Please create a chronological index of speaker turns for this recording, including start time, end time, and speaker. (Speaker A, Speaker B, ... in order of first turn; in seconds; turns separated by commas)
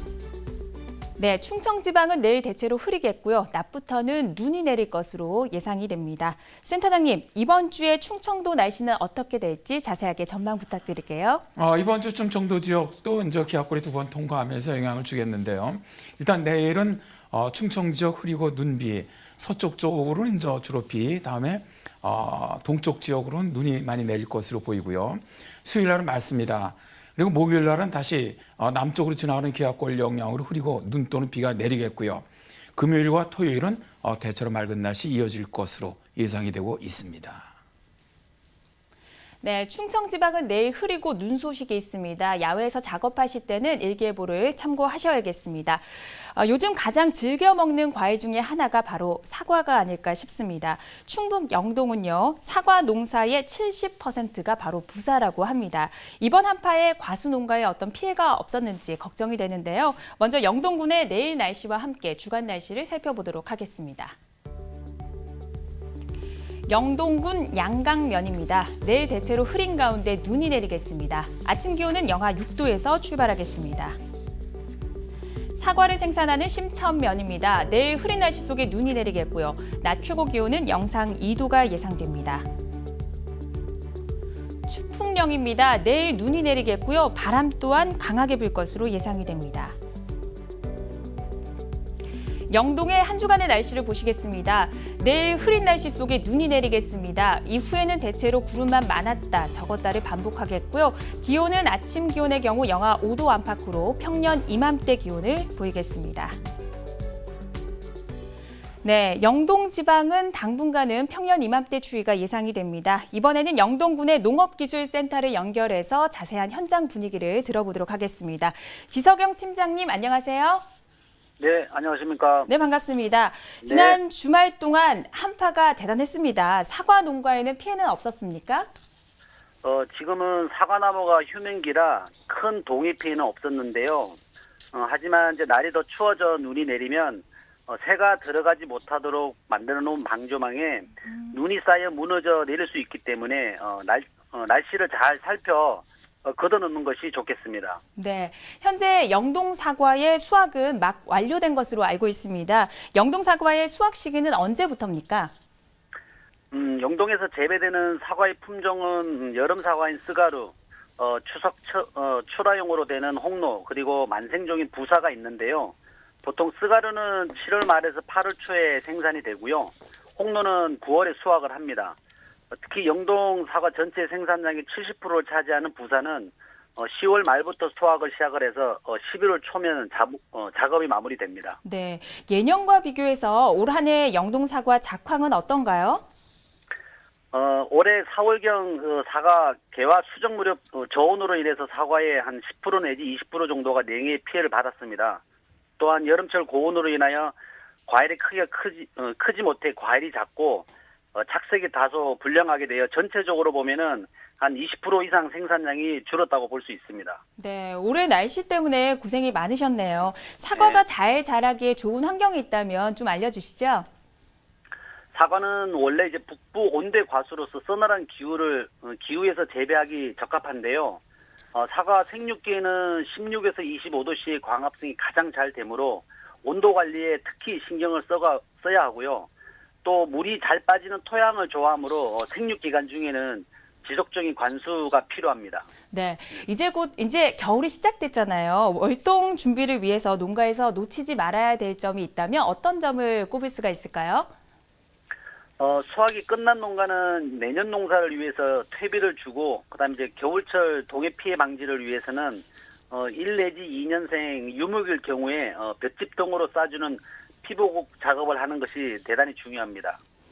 Speaker A: 1.2-11.4, Speaker B: 11.6-37.5, Speaker A: 39.4-64.2, Speaker A: 66.7-74.0, Speaker A: 75.6-82.5, Speaker A: 84.7-89.8, Speaker A: 92.5-106.4, Speaker A: 108.8-120.6, Speaker C: 121.4-122.5, Speaker A: 122.5-128.7, Speaker C: 123.6-124.0, Speaker C: 129.6-134.2, Speaker C: 134.7-147.8, Speaker A: 148.0-155.3, Speaker C: 156.5-171.9, Speaker C: 172.5-181.6, Speaker A: 181.6-186.0, Speaker C: 187.3-195.2, Speaker C: 195.8-197.3, Speaker C: 197.9-207.2, Speaker A: 207.4-213.9, Speaker C: 210.6-210.8, Speaker C: 215.1-221.0, Speaker C: 221.5-229.3, Speaker C: 229.8-235.7, Speaker A: 235.9-244.3, Speaker C: 245.6-260.0